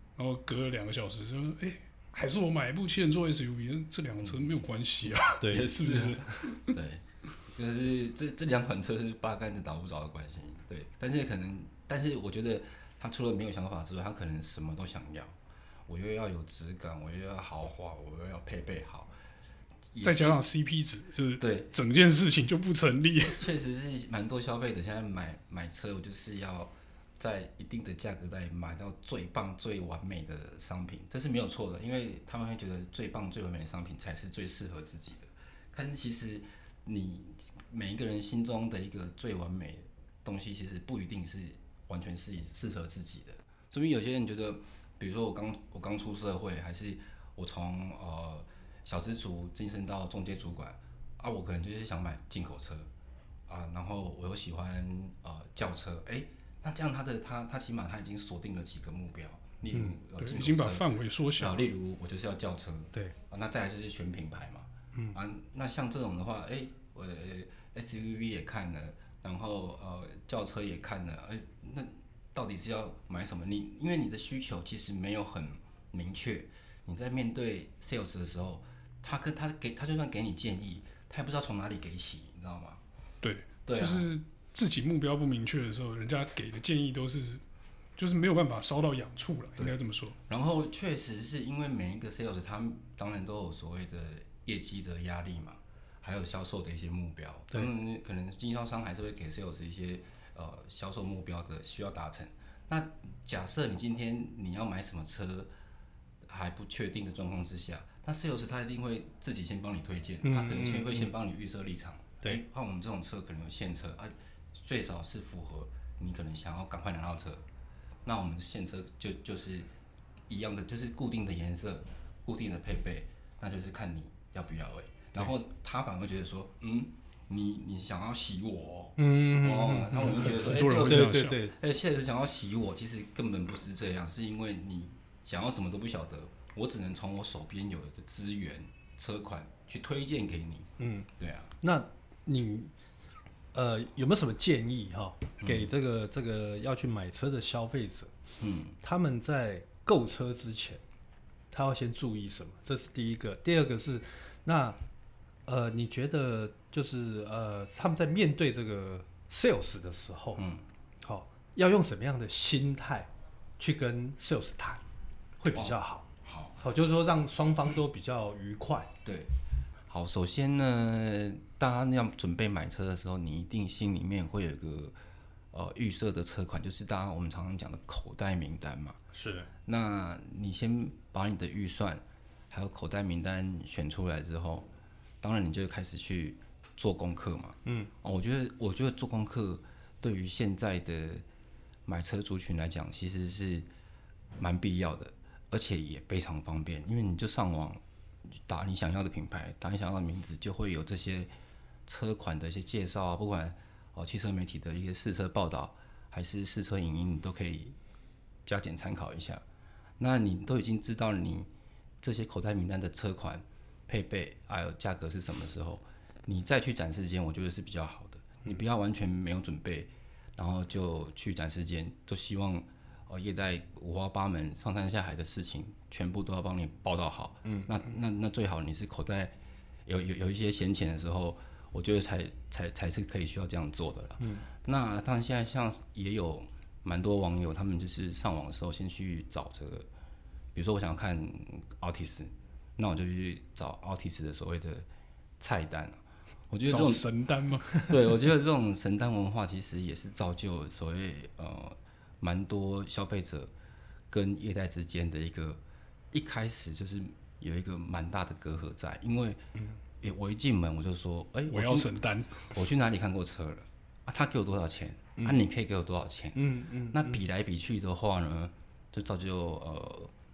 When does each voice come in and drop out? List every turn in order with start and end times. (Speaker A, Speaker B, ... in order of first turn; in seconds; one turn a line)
Speaker A: 0.2-6.7
Speaker B: 5.4-5.7
Speaker C: 5.5-15.3
Speaker C: 15.9-19.1
Speaker C: 19.9-20.4
Speaker A: 20.0-23.4
Speaker C: 21.4-21.7
Speaker C: 23.3-52.9
Speaker C: 53.5-60.9
Speaker B: 59.7-60.0
Speaker A: 60.1-61.6
Speaker C: 61.4-82.8
Speaker A: 83.2-87.4
Speaker C: 83.7-84.1
Speaker A: 88.0-90.1
Speaker C: 90.3-105.5
Speaker C: 106.2-117.4
Speaker B: 110.2-111.1
Speaker C: 118.0-119.7
Speaker C: 120.3-141.5
Speaker B: 129.0-131.5
Speaker A: 130.2-131.4
Speaker B: 140.8-141.1
Speaker B: 141.6-142.7
Speaker B: 143.5-148.1
Speaker C: 145.4-145.7
Speaker C: 148.4-148.7
Speaker B: 148.8-150.8
Speaker B: 151.5-154.8
Speaker B: 155.4-160.4
Speaker C: 160.4-160.6
Speaker B: 161.0-164.8
Speaker B: 165.4-168.9
Speaker C: 165.5-166.6
Speaker C: 169.0-169.3
Speaker C: 169.9-174.9
Speaker C: 175.5-179.0
Speaker B: 179.1-179.5
Speaker C: 179.7-184.7
Speaker C: 185.2-191.2
Speaker B: 187.6-187.9
Speaker C: 191.8-193.7
Speaker C: 194.4-201.3
Speaker C: 201.9-207.8
Speaker C: 208.4-209.4
Speaker C: 210.0-211.5
Speaker C: 212.0-239.9
Speaker B: 227.4-227.7
Speaker B: 234.2-234.4
Speaker C: 240.5-244.8
Speaker C: 245.4-246.0
Speaker C: 246.5-247.0
Speaker A: 246.6-247.9
Speaker C: 247.7-253.5
Speaker C: 254.1-255.6
Speaker C: 256.1-259.4
Speaker C: 260.0-261.9
Speaker A: 261.5-262.5
Speaker C: 262.4-270.1
Speaker B: 266.3-267.2